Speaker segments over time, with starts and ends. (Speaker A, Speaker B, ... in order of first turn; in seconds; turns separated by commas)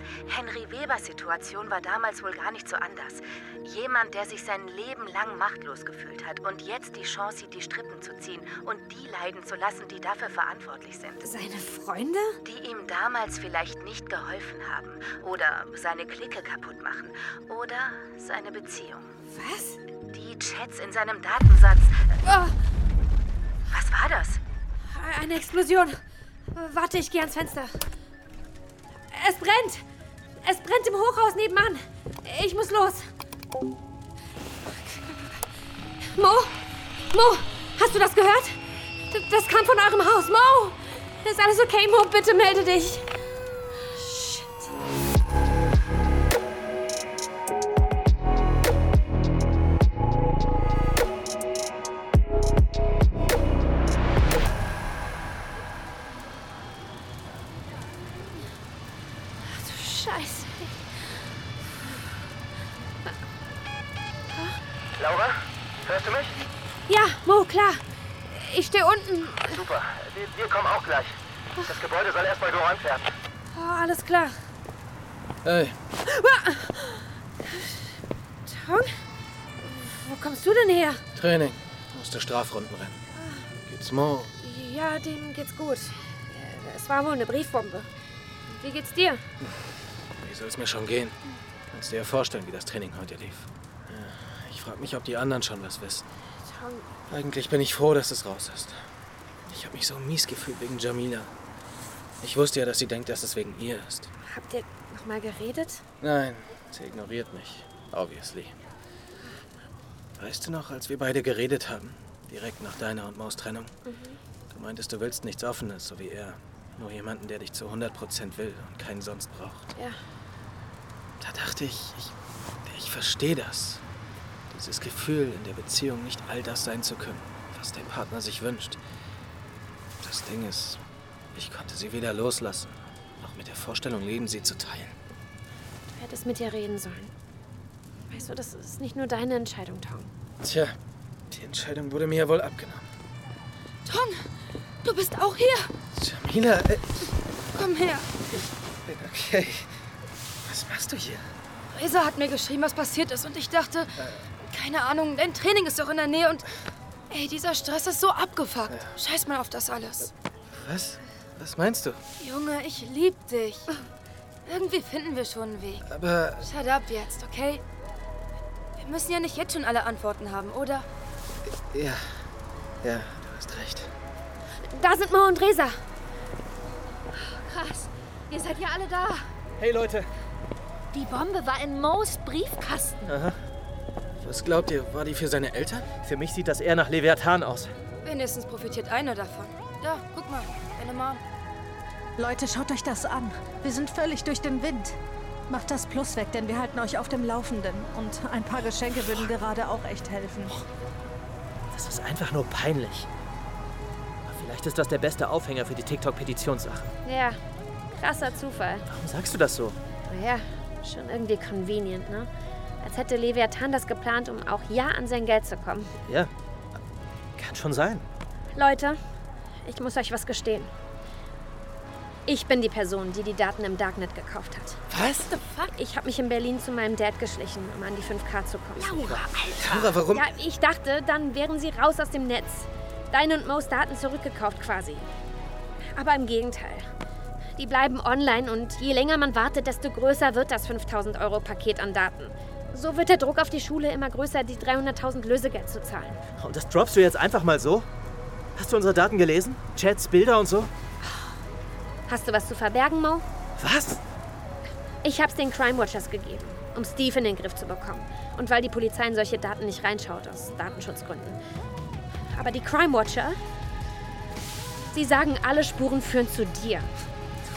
Speaker A: 0.2-11.2, Speaker B: 11.2-12.4, Speaker A: 12.4-19.1, Speaker B: 19.2-19.8, Speaker A: 20.1-22.2, Speaker B: 22.2-22.5, Speaker A: 23.7-24.4, Speaker B: 24.9-26.0, Speaker B: 26.5-27.7, Speaker B: 29.1-29.8, Speaker B: 30.4-33.1, Speaker B: 34.7-35.3, Speaker B: 36.0-36.6, Speaker B: 37.1-38.6, Speaker B: 39.1-43.1, Speaker B: 43.9-44.7, Speaker B: 59.4-60.8, Speaker C: 65.0-66.4, Speaker B: 66.9-69.6, Speaker C: 69.6-71.1, Speaker C: 71.7-73.1, Speaker B: 73.5-74.4, Speaker D: 75.4-75.8, Speaker B: 76.0-77.9, Speaker B: 78.5-79.0, Speaker B: 79.6-81.0, Speaker D: 81.1-83.0, Speaker D: 83.6-84.3, Speaker B: 84.4-87.9, Speaker B: 88.5-89.2, Speaker D: 90.2-91.2, Speaker D: 91.7-96.0, Speaker B: 96.5-96.9, Speaker D: 97.1-98.8, Speaker D: 99.5-101.3, Speaker D: 102.2-104.1, Speaker B: 104.3-105.8, Speaker D: 106.0-108.5, Speaker D: 110.2-113.7, Speaker B: 113.8-114.2, Speaker D: 114.5-119.7, Speaker D: 121.2-122.1, Speaker D: 122.7-123.8, Speaker D: 124.5-128.8, Speaker D: 130.0-130.8, Speaker D: 131.3-134.9, Speaker B: 135.9-137.1, Speaker B: 138.1-140.1, Speaker D: 140.4-140.8, Speaker D: 141.3-142.8, Speaker E: 143.8-144.2, Speaker E: 144.8-145.7, Speaker D: 145.9-147.0, Speaker E: 147.5-148.1, Speaker D: 148.3-149.7, Speaker D: 150.4-151.2, Speaker E: 151.7-153.9, Speaker E: 154.4-156.4, Speaker E: 157.1-160.1, Speaker D: 160.5-162.0, Speaker E: 162.2-163.7, Speaker E: 164.4-165.8, Speaker D: 165.8-166.4, Speaker E: 166.4-167.6, Speaker E: 168.8-170.9, Speaker D: 171.7-172.1, Speaker D: 172.8-173.9, Speaker B: 174.6-175.8, Speaker F: 177.1-179.3, Speaker G: 179.6-180.1, Speaker F: 180.9-183.1, Speaker G: 183.1-183.4, Speaker D: 184.2-185.9, Speaker G: 186.0-187.7, Speaker E: 188.0-191.2, Speaker H: 192.2-194.9, Speaker H: 195.5-200.5, Speaker G: 201.7-203.1, Speaker G: 204.2-206.9, Speaker B: 207.0-207.4, Speaker B: 207.9-208.9, Speaker G: 208.9-209.8, Speaker B: 210.1-212.3, Speaker B: 212.8-215.9, Speaker G: 217.4-218.1, Speaker B: 218.5-219.0, Speaker B: 219.6-220.7, Speaker B: 222.3-224.8, Speaker D: 224.9-225.3, Speaker E: 225.2-225.8, Speaker B: 225.7-229.1, Speaker F: 228.8-230.0, Speaker D: 229.6-230.2, Speaker B: 230.1-235.1, Speaker B: 235.9-236.9, Speaker B: 237.6-246.2, Speaker G: 246.4-247.9, Speaker G: 248.6-250.7, Speaker B: 252.1-253.2, Speaker G: 253.6-254.0, Speaker B: 255.0-261.4, Speaker B: 262.3-263.4, Speaker B: 264.9-266.9